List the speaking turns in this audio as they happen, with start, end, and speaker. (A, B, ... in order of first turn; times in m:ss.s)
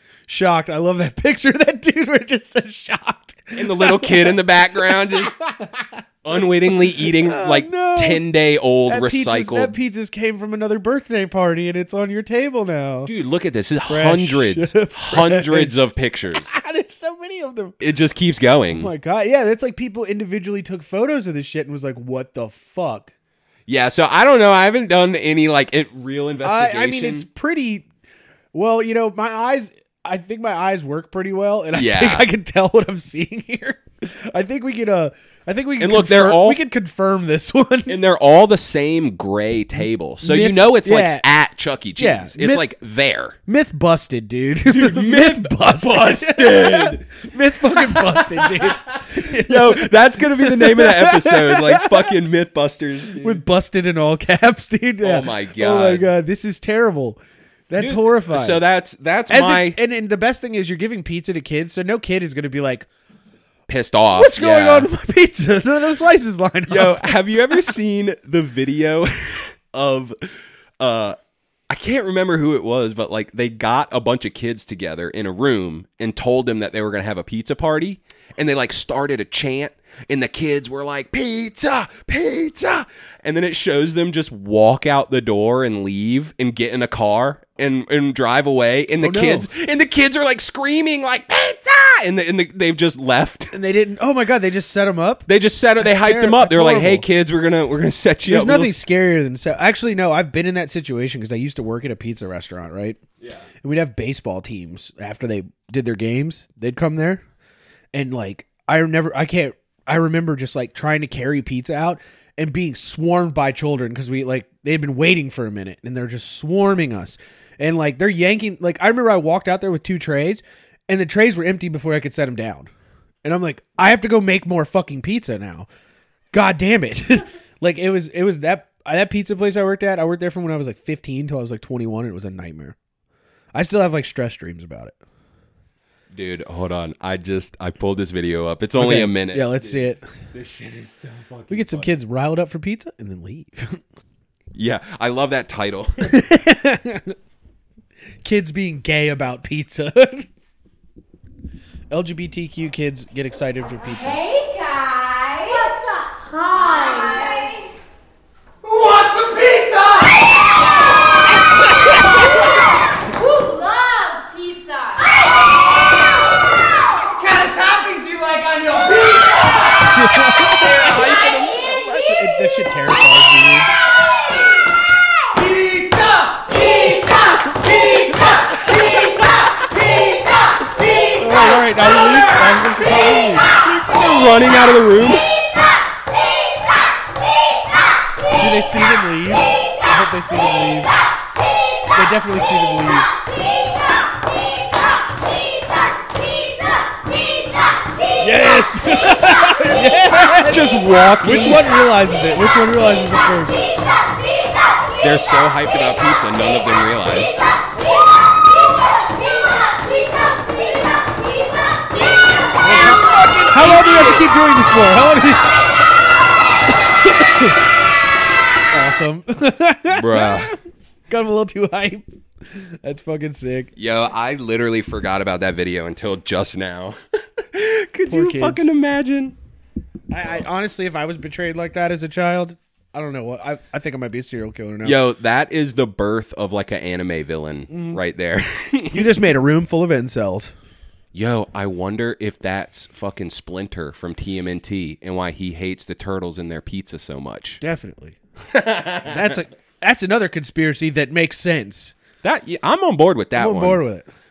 0:00.3-0:08.2 A
0:03.6-0:05.4 B
0:06.2-0:09.7 B
0:08.9-0:13.1 A
0:13.0-0:16.5 B
0:13.9-0:15.7 A
0:16.4-0:17.8 A
0:17.8-0:18.9 B
0:18.7-0:23.1 A
0:23.7-0:27.2 B
0:26.4-0:27.8 A
0:28.5-0:38.0 A
0:31.7-0:32.3 B
0:35.8-0:36.6 B
0:37.9-0:43.4 B
0:40.2-0:41.2 A
0:42.0-0:42.6 A
0:43.5-0:52.2 A
0:44.6-0:47.1 B
0:47.7-0:53.4 B
0:53.2-0:58.6 A
0:55.0-0:56.1 B
0:57.8-0:59.8 B
0:59.3-1:02.9 A
1:03.7-1:04.9 B
1:04.1-1:07.7 A
1:06.7-1:11.2 B
1:11.7-1:33.5 B
1:29.0-1:29.5 A
1:33.5-1:35.3 A
1:35.3-1:38.7 B
1:35.8-1:37.0 A
1:38.2-1:43.0 A
1:43.2-1:43.5 B
1:43.6-1:47.2 A
1:47.9-2:02.7 A
2:03.2-2:05.7 A
2:06.3-2:12.8 A
2:13.5-2:15.0 A
2:16.1-2:21.9 B
2:18.8-2:20.0 A
2:21.5-2:23.8 A
2:24.5-2:26.1 B
2:26.0-2:27.1 A
2:28.2-2:30.3 A
2:31.9-2:34.2 A
2:33.8-2:37.7 C
2:38.6-2:40.6 C
2:43.0-2:46.1 C
2:46.9-2:49.9 C
2:49.9-2:51.0 A
2:50.5-2:52.1 B
2:51.9-2:53.7 A
2:55.3-3:03.2 C
3:01.2-3:03.5 A
3:03.6-3:05.3 B
3:08.4-3:10.9 A
3:11.9-3:13.1 A
3:18.2-3:23.6 A
3:20.3-3:21.8 B
3:25.0-3:27.4 B
3:28.5-3:32.2 C
3:32.6-3:35.5 A
3:32.6-3:34.3 B
3:37.1-3:37.6 A
3:38.7-3:40.6 A
3:39.9-3:40.5 B
3:41.1-3:43.7 A
3:43.8-3:49.4 B
3:48.1-3:48.7 A
3:50.1-3:55.0 A
3:54.8-3:59.1 B
3:57.7-3:58.0 A
3:58.9-4:00.5 A
4:01.1-4:07.6 B
4:07.6-4:08.2 A
4:08.5-4:09.4 B
4:09.0-4:12.0 A
4:12.2-4:13.8 B
4:13.4-4:14.1 A